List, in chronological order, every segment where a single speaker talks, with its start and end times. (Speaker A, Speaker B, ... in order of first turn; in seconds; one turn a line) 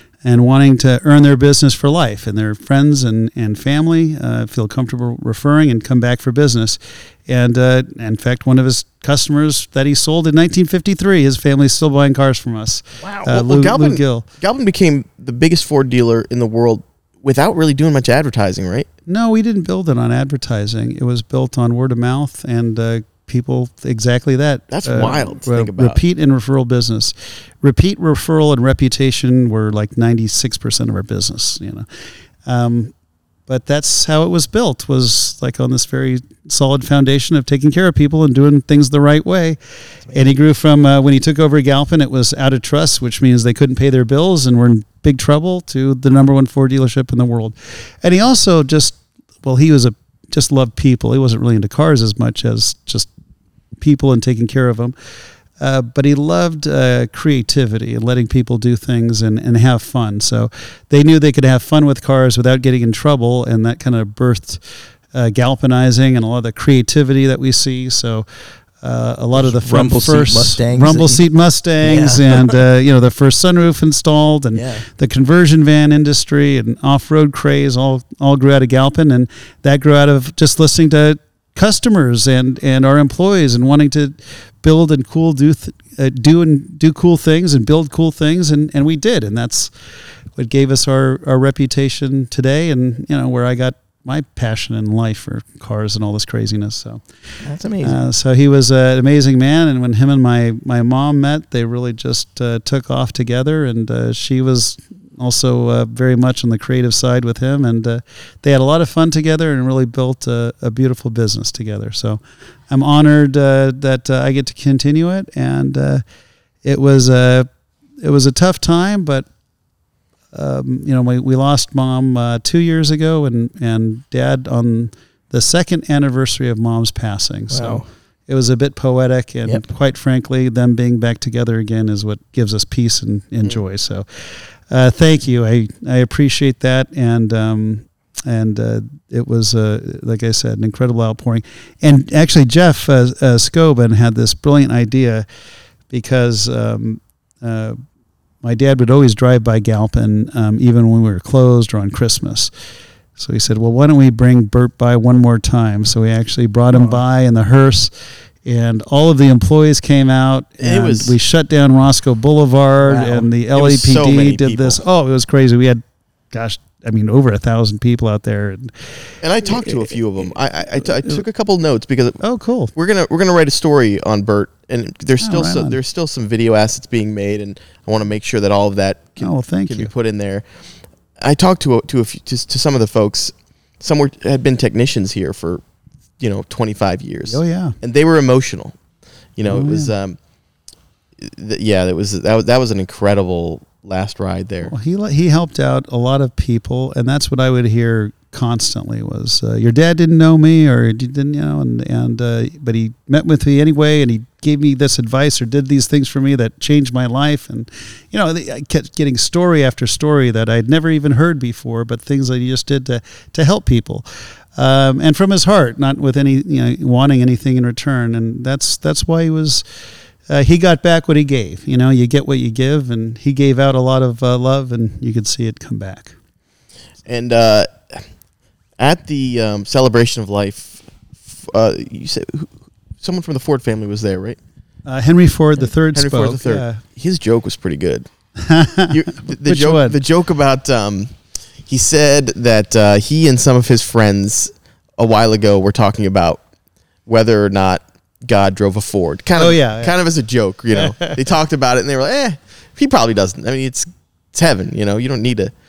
Speaker A: 0.2-14.2
Speaker B: 13.0-13.3
Speaker C: 13.3-18.9
Speaker A: 19.1-31.9
Speaker C: 24.7-26.0
Speaker A: 32.5-32.9
Speaker A: 33.5-39.6
Speaker A: 40.1-53.1
Speaker A: 53.8-55.0
Speaker A: 55.6-68.3
Speaker A: 68.8-89.7
Speaker B: 69.3-71.2
Speaker B: 71.8-72.5
Speaker B: 74.5-74.9
Speaker A: 90.4-97.0
Speaker B: 97.4-98.0
Speaker A: 97.8-116.0
Speaker A: 116.6-117.5
Speaker A: 118.0-119.3
Speaker A: 120.3-134.1
Speaker B: 127.5-127.9
Speaker A: 134.7-145.2
Speaker A: 145.9-147.8
Speaker A: 148.4-152.5
Speaker A: 153.2-157.9
Speaker A: 158.4-168.9
Speaker C: 160.6-161.2
Speaker C: 163.1-164.8
Speaker C: 169.2-172.2
Speaker A: 169.4-169.9
Speaker A: 170.8-171.2
Speaker A: 172.2-172.7
Speaker C: 172.8-180.4
Speaker A: 175.2-175.8
Speaker A: 179.2-179.9
Speaker C: 181.2-185.6
Speaker C: 186.2-188.8
Speaker A: 187.3-187.7
Speaker C: 189.4-190.2
Speaker A: 189.4-189.9
Speaker C: 191.2-194.7
Speaker A: 194.6-219.6
Speaker A: 220.3-226.1
Speaker C: 227.1-228.0
Speaker C: 228.8-234.4
Speaker A: 234.9-236.8
Speaker C: 235.9-238.1
Speaker A: 238.4-239.9
Speaker C: 238.9-241.1
Speaker C: 241.7-246.4
Speaker C: 247.1-255.5
Speaker A: 249.4-249.9
Speaker A: 250.8-251.2